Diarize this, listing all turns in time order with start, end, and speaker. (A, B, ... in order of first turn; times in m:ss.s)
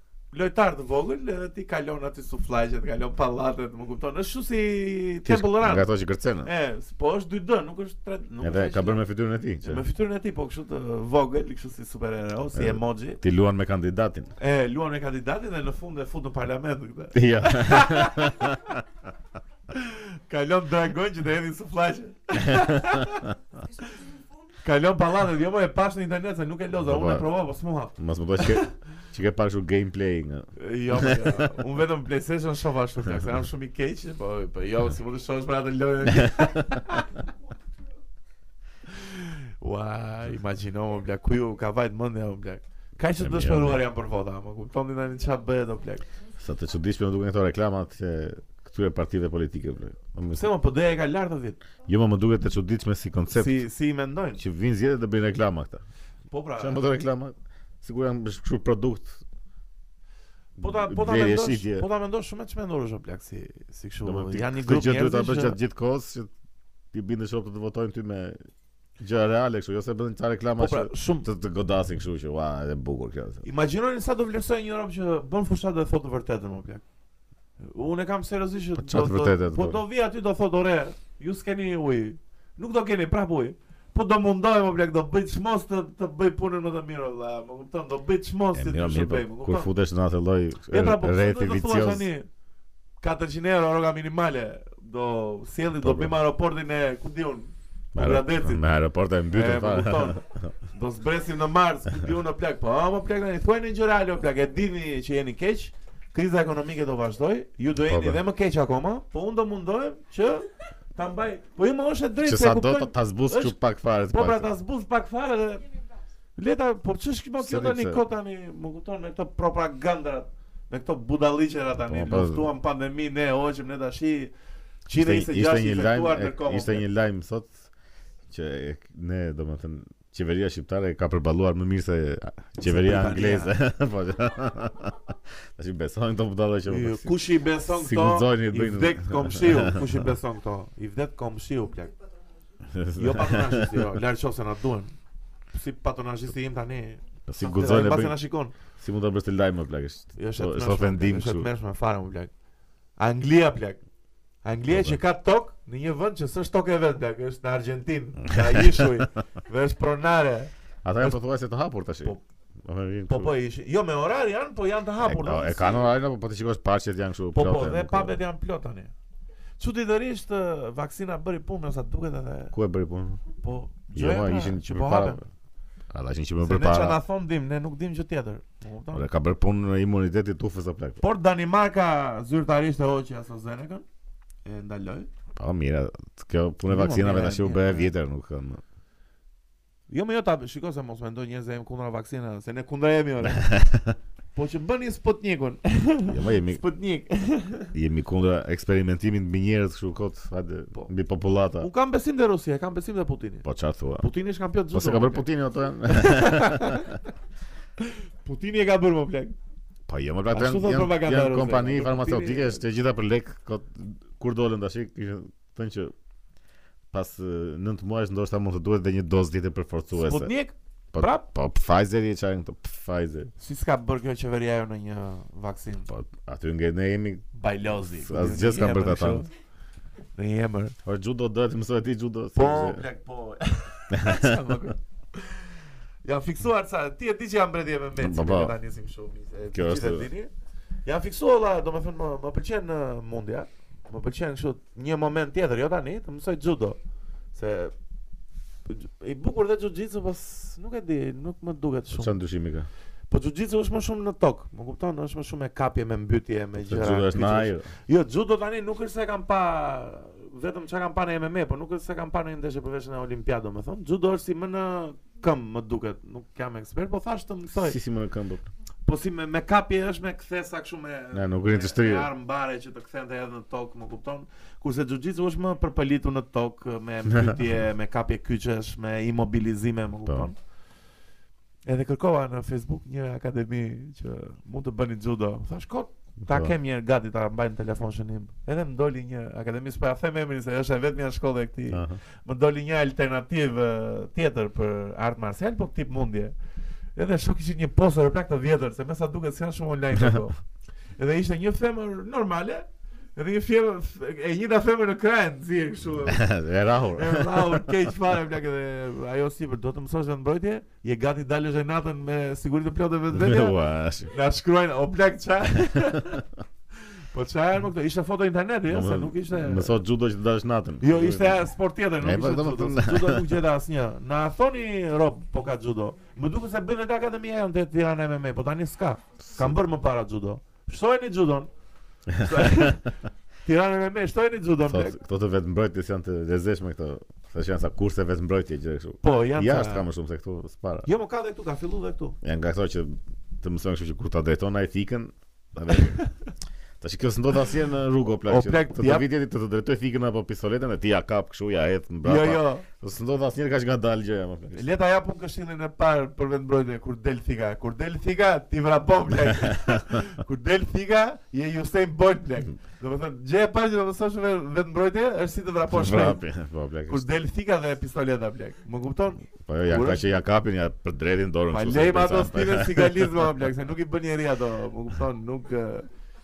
0:00.3-0:05.9 A
0:05.2-0:06.5 B
0:06.4-0:09.0 A
0:08.4-0:09.8 B
0:09.6-0:13.2 A
0:12.5-0:14.3 B
0:14.4-0:18.6 A
0:17.1-0:18.6 B
0:19.7-0:23.3 A
0:22.5-0:22.9 B
0:24.6-0:28.7 A
0:26.8-0:27.3 B
0:28.0-0:31.5 B
0:30.6-0:37.2 A
0:36.1-0:36.5 B
0:38.9-0:46.0 A
0:43.2-0:43.8 B
0:46.4-0:50.5 B
0:50.3-0:51.6 A
0:51.8-0:53.6 B
0:53.3-0:54.4 A
0:54.4-0:55.8 B
0:56.3-0:56.8 A
0:56.6-0:59.2 B
1:00.6-1:01.9 B
1:00.6-1:05.6 A
1:04.0-1:06.3 B
1:06.9-1:08.4 B
1:09.0-1:13.4 B
1:10.6-1:11.3 A
1:13.4-1:16.8 A
1:17.6-1:29.7 A
1:18.8-1:19.8 B
1:28.5-1:32.1 B
1:30.7-1:32.3 A
1:33.0-1:38.6 A
1:35.8-1:36.1 B
1:37.9-1:40.5 B
1:39.3-1:53.6 A
1:47.8-1:48.2 B
1:52.2-1:54.5 B
1:54.1-1:55.6 A
1:56.4-2:04.3 A
1:57.4-1:58.0 B
2:01.9-2:02.5 B
2:04.8-2:06.9 A
2:04.9-2:07.6 B
2:08.3-2:20.0 B
2:12.6-2:13.5 A
2:16.7-2:21.9 A
2:22.6-2:24.0 B
2:22.9-2:24.9 A
2:25.5-2:28.5 A
2:27.3-2:28.2 B
2:28.8-2:31.5 B
2:30.2-2:32.3 A
2:33.0-2:33.8 A
2:34.4-2:41.2 A
2:34.7-2:35.0 B
2:38.3-2:38.9 B
2:40.8-2:43.3 B
2:43.1-2:45.9 A
2:45.0-2:48.2 B
2:47.3-2:48.9 A
2:49.6-2:52.5 A
2:52.5-2:53.2 B
2:53.4-2:55.2 A
2:53.9-2:55.2 B
2:55.9-2:57.0 B
2:56.4-2:59.1 A
2:58.9-3:01.0 B
3:01.0-3:03.8 A
3:04.4-3:05.1 A
3:05.4-3:08.6 B
3:06.6-3:07.9 A
3:09.9-3:13.5 A
3:13.2-3:14.0 B
3:14.3-3:17.7 A
3:16.1-3:16.6 B
3:17.7-3:21.7 B
3:21.6-3:23.4 A
3:23.4-3:24.1 B
3:24.0-3:25.2 A
3:24.7-3:26.9 B
3:25.9-3:27.0 A
3:27.8-3:29.3 A
3:29.9-3:35.9 B
3:30.3-3:32.6 A
3:36.9-3:40.3 B
3:39.9-3:41.2 A
3:40.9-3:43.3 B
3:43.4-3:45.9 A
3:45.9-3:47.3 B
3:47.3-3:49.3 A
3:47.9-3:49.2 B
3:50.1-3:50.7 A
3:50.8-3:52.8 B
3:52.3-4:00.3 A
3:53.9-3:54.4 B
3:58.0-3:58.5 B
3:59.5-4:00.1 B
4:00.8-4:06.8 A
4:07.3-4:07.7 A
4:08.7-4:12.2 A
4:11.9-4:12.7 B
4:13.1-4:27.8 A
4:16.6-4:17.7 B
4:27.6-4:28.5 B
4:28.8-4:40.4 A
4:31.1-4:32.1 B
4:41.6-4:56.4 A
4:46.2-4:46.5 B
4:51.7-4:52.0 B
4:57.0-5:00.4 A
5:01.0-5:06.3 A
5:06.0-5:07.7 B
5:06.9-5:16.2 A
5:13.1-5:14.1 B
5:16.8-5:19.8 A
5:18.7-5:21.5 B
5:20.8-5:31.5 A
5:22.0-5:23.4 B
5:29.3-5:29.5 B
5:32.1-5:32.8 B
5:32.1-5:32.9 A
5:33.4-5:35.0 A
5:34.7-5:40.9 B
5:39.0-5:39.9 A
5:40.8-5:42.2 A
5:42.2-5:46.0 B
5:45.8-5:46.1 A
5:46.8-5:54.6 B
5:48.3-5:49.1 A
5:52.0-5:52.6 A
5:54.5-6:06.2 A
6:05.7-6:07.1 B
6:06.9-6:10.0 A
6:09.4-6:13.3 B
6:11.5-6:15.9 A